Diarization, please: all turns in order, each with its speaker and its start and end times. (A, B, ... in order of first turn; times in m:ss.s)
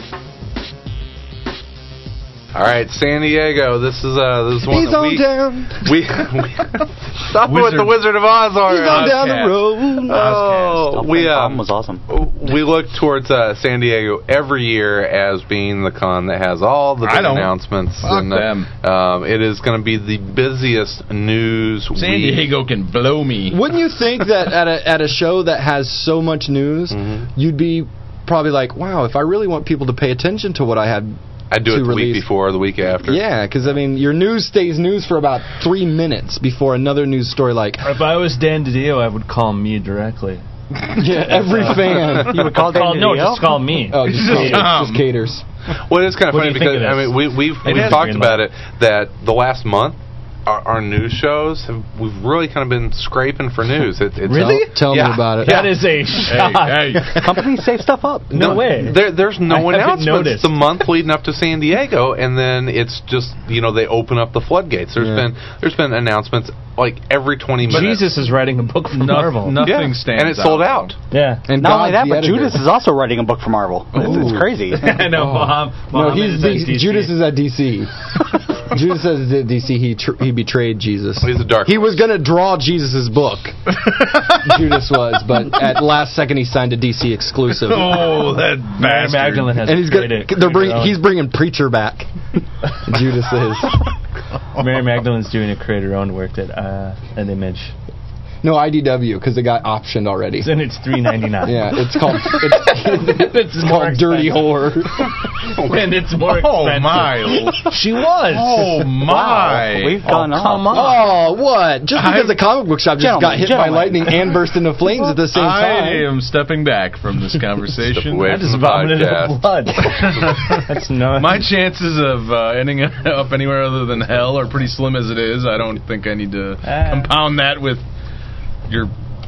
0:02.5-0:05.3 A
0:04.7-0:05.9 B
0:05.8-0:09.2 A
0:07.4-0:08.1 C
0:08.7-0:10.3 B
0:08.7-0:10.8 C
0:10.0-0:22.5 A
0:10.8-0:12.0 D
0:17.0-0:18.7 C
0:22.0-0:23.6 C
0:23.5-0:32.3 B
0:26.9-0:27.3 A
0:31.5-0:33.2 A
0:33.0-0:37.9 B
0:37.8-0:40.4 E
0:40.9-0:42.5 B
0:41.0-0:44.7 E
0:42.1-0:43.6 D
0:43.9-0:45.4 B
0:44.1-0:45.1 C
0:45.9-0:55.9 A
0:46.3-0:48.5 E
0:54.3-0:57.2 E
0:54.3-0:55.7 B
0:56.1-0:57.6 C
0:57.2-0:58.8 D
0:58.3-1:00.6 E
0:58.3-1:08.1 A
1:05.0-1:05.3 B
1:07.7-1:09.7 E
1:07.7-1:08.1 C
1:08.9-1:10.9 C
1:09.6-1:10.9 A
1:11.1-1:11.4 E
1:11.4-1:12.7 B
1:11.6-1:15.0 D
1:13.9-1:18.1 B
1:14.8-1:17.2 E
1:18.6-1:28.3 B
1:21.2-1:22.1 A
1:23.7-1:24.7 C
1:27.5-1:29.7 C
1:28.8-1:31.0 E
1:29.6-1:32.1 B
1:32.8-1:33.9 B
1:34.6-1:37.7 E
1:38.4-1:40.6 B
1:40.4-1:48.9 E
1:41.4-1:45.1 B
1:46.2-1:50.2 C
1:49.0-1:50.9 D
1:50.0-1:51.0 E
1:50.7-1:56.1 B
1:51.9-1:52.4 C
1:53.0-1:54.3 D
1:55.2-1:58.5 C
1:57.8-1:59.5 A
1:58.2-2:01.5 E
1:59.8-2:07.8 C
2:06.6-2:07.1 E
2:08.7-2:08.9 C